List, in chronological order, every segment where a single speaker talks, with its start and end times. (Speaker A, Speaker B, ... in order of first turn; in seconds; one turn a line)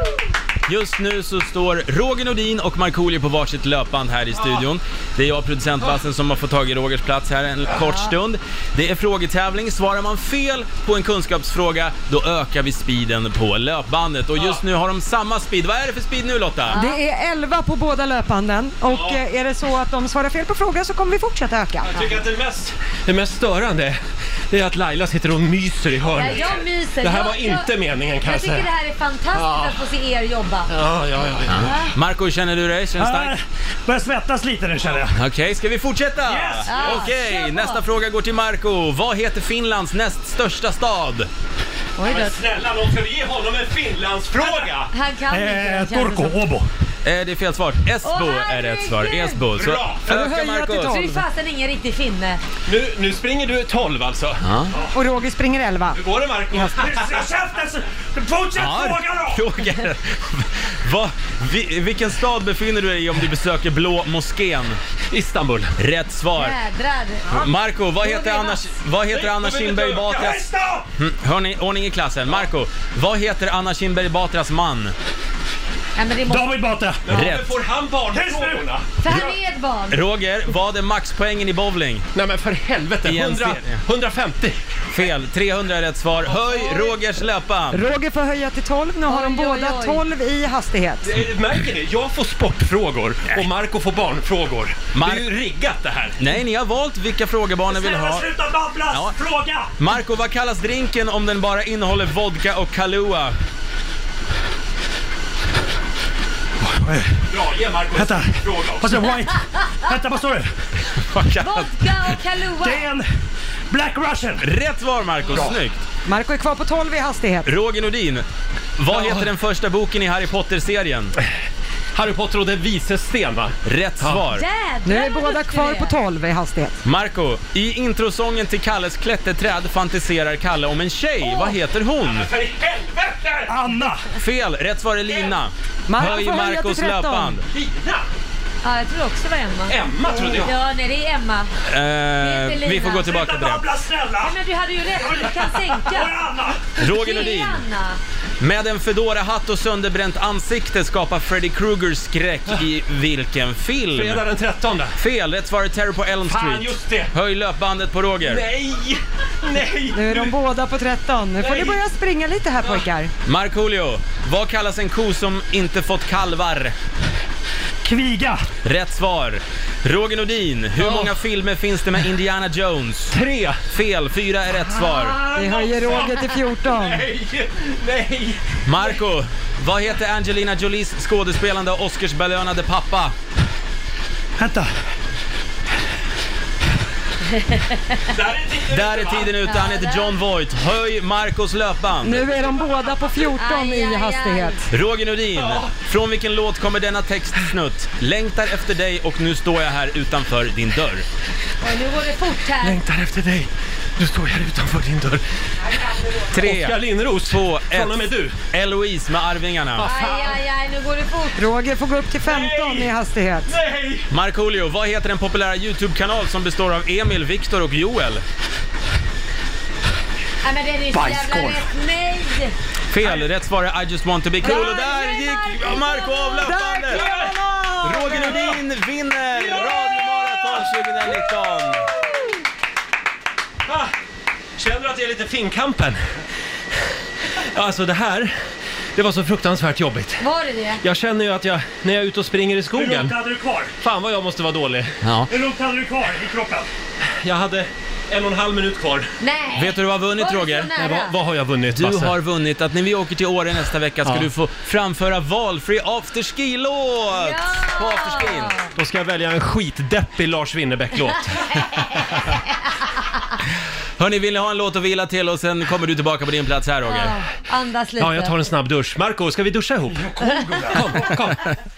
Speaker A: 0.7-16.8
Speaker B: 7.8-8.1
Speaker B: 16.7-17.0
Speaker C: 16.7-22.0
Speaker D: 21.8-28.7
Speaker B: 26.1-30.7
Speaker D: 29.3-29.8
Speaker D: 30.7-31.8
Speaker A: 31.5-33.3
Speaker B: 31.6-31.9
Speaker E: 33.0-35.2
Speaker A: 35.1-41.3
Speaker E: 36.2-37.0
Speaker B: 36.7-37.8
Speaker B: 42.0-42.4
Speaker D: 42.0-44.9
Speaker B: 44.9-46.4
Speaker E: 45.3-46.7
Speaker A: 47.0-51.0
Speaker B: 48.0-49.4
Speaker D: 49.6-50.1
Speaker C: 50.1-51.2
Speaker B: 50.8-52.4
Speaker D: 52.7-54.4
Speaker A: 54.4-54.7
Speaker C: 54.9-56.0
Speaker D: 55.9-57.2
Speaker E: 56.6-59.4
Speaker A: 58.5-64.8
Speaker D: 65.1-65.7
Speaker A: 65.8-66.6
Speaker B: 66.3-67.4
Speaker A: 67.3-70.5
Speaker B: 68.0-68.6
Speaker D: 69.1-70.2
Speaker E: 69.9-70.9
Speaker A: 71.0-74.9
Speaker B: 76.0-76.5
Speaker E: 76.2-77.0
Speaker D: 77.0-78.8
Speaker A: 77.1-77.5
Speaker E: 78.1-78.7
Speaker B: 79.0-80.0
Speaker A: 79.9-82.0
Speaker D: 82.1-84.6
Speaker A: 83.0-83.8
Speaker A: 84.9-87.8
Speaker C: 87.7-91.1
Speaker B: 89.0-90.0
Speaker D: 91.0-96.2
Speaker A: 94.9-95.3
Speaker A: 96.2-98.3
Speaker E: 97.7-99.7
Speaker A: 99.8-103.4
Speaker E: 106.6-107.2
Speaker D: 107.3-109.0
Speaker E: 107.9-110.5
Speaker D: 110.9-111.6
Speaker B: 111.4-112.9
Speaker E: 112.6-113.1
Speaker E: 113.7-114.5
Speaker A: 114.4-115.8
Speaker E: 115.3-115.6
Speaker C: 116.0-117.5
Speaker A: 117.4-118.2
Speaker A: 118.8-121.1
Speaker D: 118.9-119.3
Speaker D: 121.9-124.2
Speaker A: 123.6-124.4
Speaker B: 124.3-126.0
Speaker C: 124.8-126.8
Speaker A: 126.8-132.3
Speaker B: 131.2-131.6
Speaker D: 132.0-133.6
Speaker E: 133.5-134.1
Speaker A: 134.2-137.4
Speaker D: 135.1-135.3
Speaker C: 135.9-137.4
Speaker D: 137.5-138.1
Speaker B: 138.6-139.8
Speaker D: 139.7-140.5
Speaker B: 140.3-141.5
Speaker A: 141.7-143.6
Speaker B: 142.2-143.1
Speaker E: 143.0-144.4
Speaker B: 144.2-146.1
Speaker E: 144.9-146.6
Speaker A: 146.8-147.6
Speaker B: 146.8-148.0
Speaker A: 148.4-154.2
Speaker D: 153.9-155.0
Speaker A: 154.9-158.4
Speaker D: 156.2-157.1
Speaker D: 158.2-160.4
Speaker C: 159.9-163.1
Speaker D: 161.4-161.8
Speaker A: 163.2-166.7
Speaker E: 167.8-168.5
Speaker A: 168.6-175.2
Speaker D: 173.1-173.7
Speaker E: 174.8-176.1
Speaker C: 175.3-177.0
Speaker D: 175.7-176.1
Speaker D: 176.6-178.4
Speaker A: 178.6-183.1
Speaker E: 184.4-184.7
Speaker B: 187.3-188.0
Speaker D: 188.1-189.3
Speaker A: 188.7-192.4
Speaker B: 189.4-190.2
Speaker C: 192.0-194.6
Speaker B: 193.2-194.6
Speaker A: 194.7-201.0
Speaker D: 195.3-195.7
Speaker B: 201.6-202.8
Speaker D: 202.6-205.2
Speaker D: 206.1-208.4
Speaker A: 206.3-209.9
Speaker D: 209.8-210.3
Speaker B: 209.8-211.5
Speaker C: 211.3-213.5
Speaker D: 212.2-212.9
Speaker D: 213.4-214.1
Speaker A: 214.1-218.2
Speaker B: 220.4-222.5
Speaker E: 220.9-221.7
Speaker A: 222.9-227.0
Speaker B: 224.4-226.5
Speaker C: 226.4-228.0
Speaker A: 227.8-231.9
Speaker D: 234.6-236.1
Speaker D: 237.4-238.4
Speaker D: 238.9-240.2
Speaker B: 240.2-240.8
Speaker D: 240.8-243.2
Speaker E: 242.7-243.7
Speaker D: 243.8-244.9
Speaker A: 245.0-245.3
Speaker E: 245.3-246.7
Speaker D: 247.1-249.1
Speaker B: 249.2-251.2
Speaker A: 249.5-250.7
Speaker D: 250.8-252.1
Speaker A: 251.7-258.6
Speaker D: 254.0-254.3
Speaker B: 257.1-258.7
Speaker D: 258.7-262.3
Speaker B: 261.5-262.1
Speaker A: 264.0-267.1
Speaker B: 266.9-268.4
Speaker D: 268.0-270.1
Speaker E: 269.9-271.0
Speaker D: 270.7-271.4